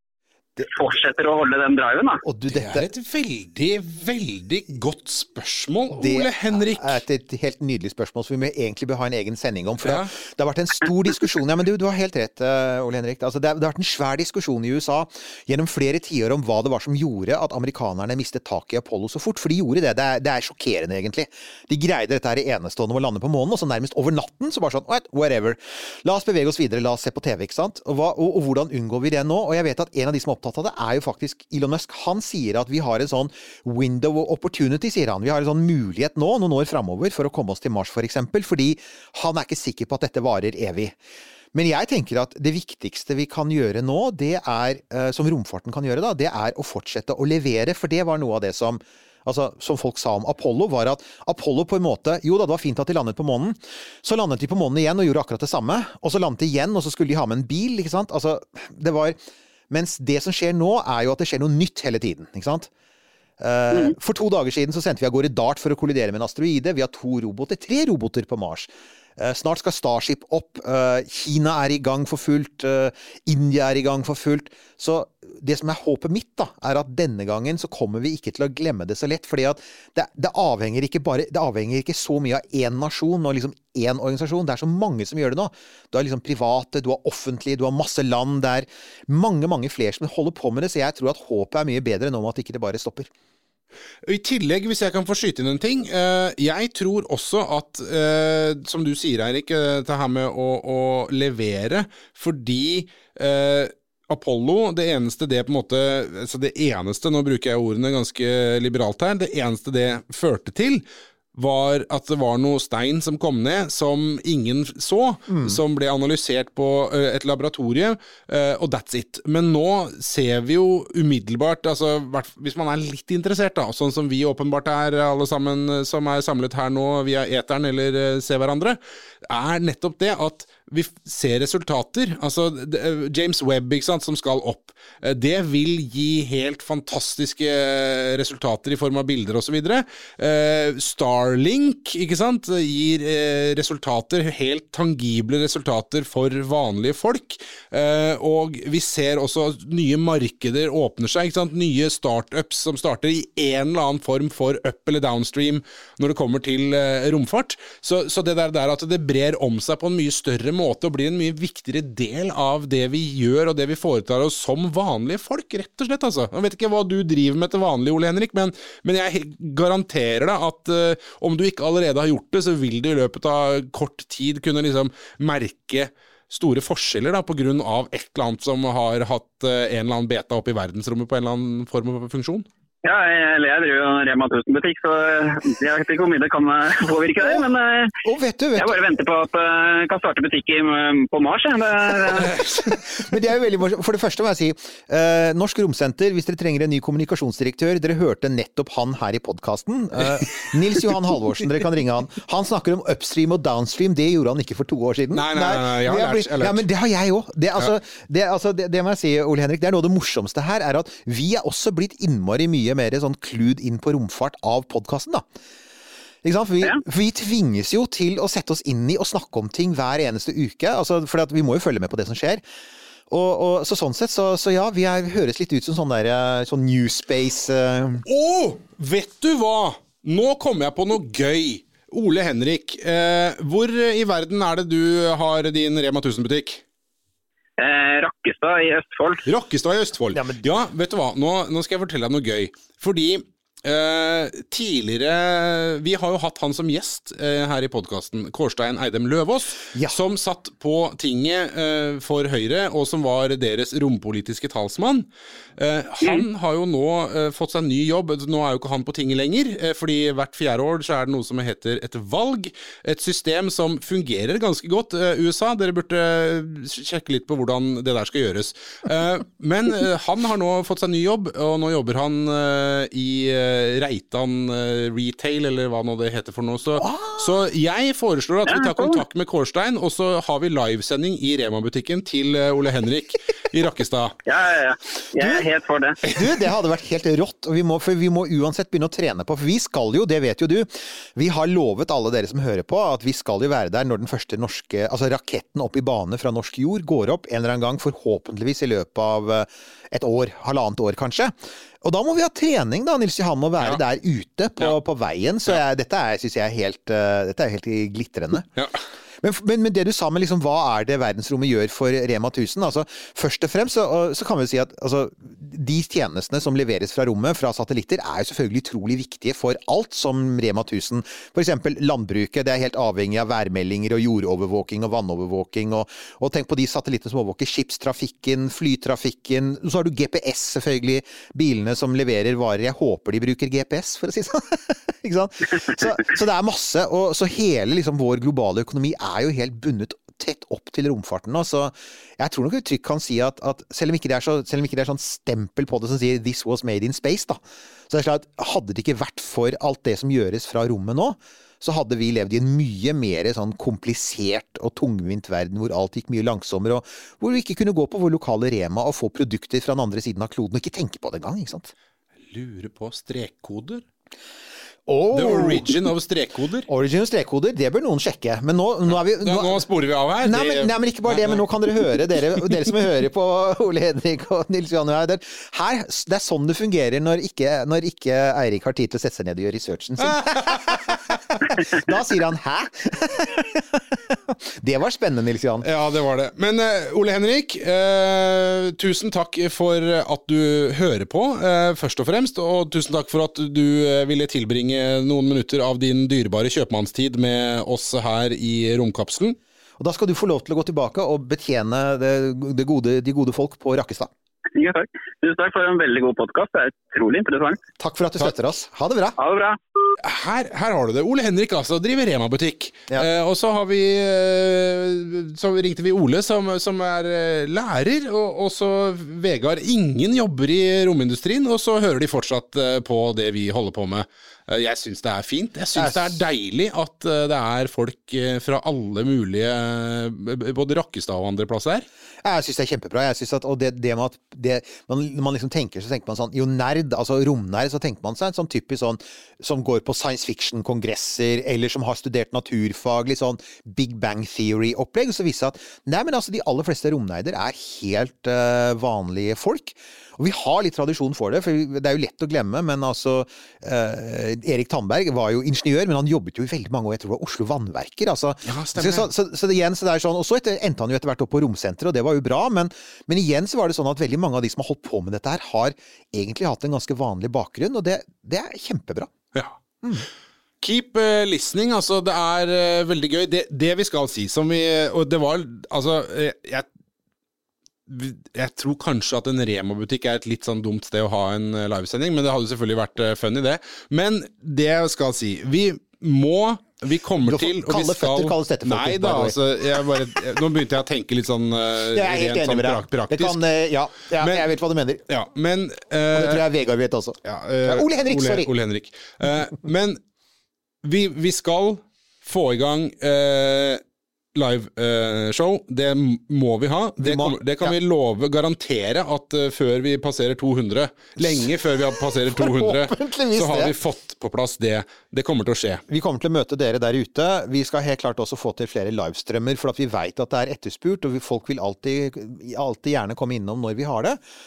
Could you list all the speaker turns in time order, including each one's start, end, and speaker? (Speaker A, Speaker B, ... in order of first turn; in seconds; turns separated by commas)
Speaker A: 0.7-2.2, Speaker B: 2.2-2.9, Speaker C: 2.5-7.0, Speaker B: 5.9-41.0, Speaker C: 9.8-10.1, Speaker B: 41.5-59.2, Speaker B: 59.7-62.7, Speaker B: 63.4-93.1, Speaker C: 94.1-110.8, Speaker C: 111.3-182.5, Speaker B: 115.3-115.6, Speaker A: 182.8-187.9, Speaker B: 188.0-188.8, Speaker A: 188.6-192.4, Speaker B: 192.7-215.3, Speaker C: 205.1-206.7, Speaker B: 216.2-222.4, Speaker B: 223.1-228.0, Speaker C: 228.1-236.6, Speaker A: 237.6-239.2, Speaker C: 239.3-284.2, Speaker B: 240.1-240.5, Speaker B: 276.8-277.1, Speaker A: 278.5-279.0, Speaker A: 284.3-286.0, Speaker B: 286.1-308.5, Speaker B: 309.2-361.7, Speaker C: 362.3-363.8, Speaker B: 364.9-365.8, Speaker C: 365.1-366.7, Speaker B: 366.7-369.7, Speaker C: 369.1-371.4, Speaker B: 370.2-385.7, Speaker C: 380.0-381.0, Speaker C: 385.6-399.4, Speaker B: 399.8-404.1, Speaker A: 404.6-407.6, Speaker B: 407.8-409.2, Speaker A: 409.2-409.6, Speaker C: 410.0-431.9, Speaker B: 425.8-426.1, Speaker B: 432.2-469.1, Speaker C: 458.5-459.1, Speaker B: 469.8-470.1, Speaker C: 470.6-476.7, Speaker C: 477.9-493.4, Speaker B: 487.2-489.4, Speaker B: 491.9-495.0, Speaker C: 494.2-494.5, Speaker C: 495.1-496.4, Speaker B: 496.1-498.5, Speaker C: 497.2-500.0, Speaker C: 500.8-503.8, Speaker C: 504.4-515.8, Speaker B: 507.0-507.8, Speaker B: 511.2-513.8, Speaker B: 515.9-524.2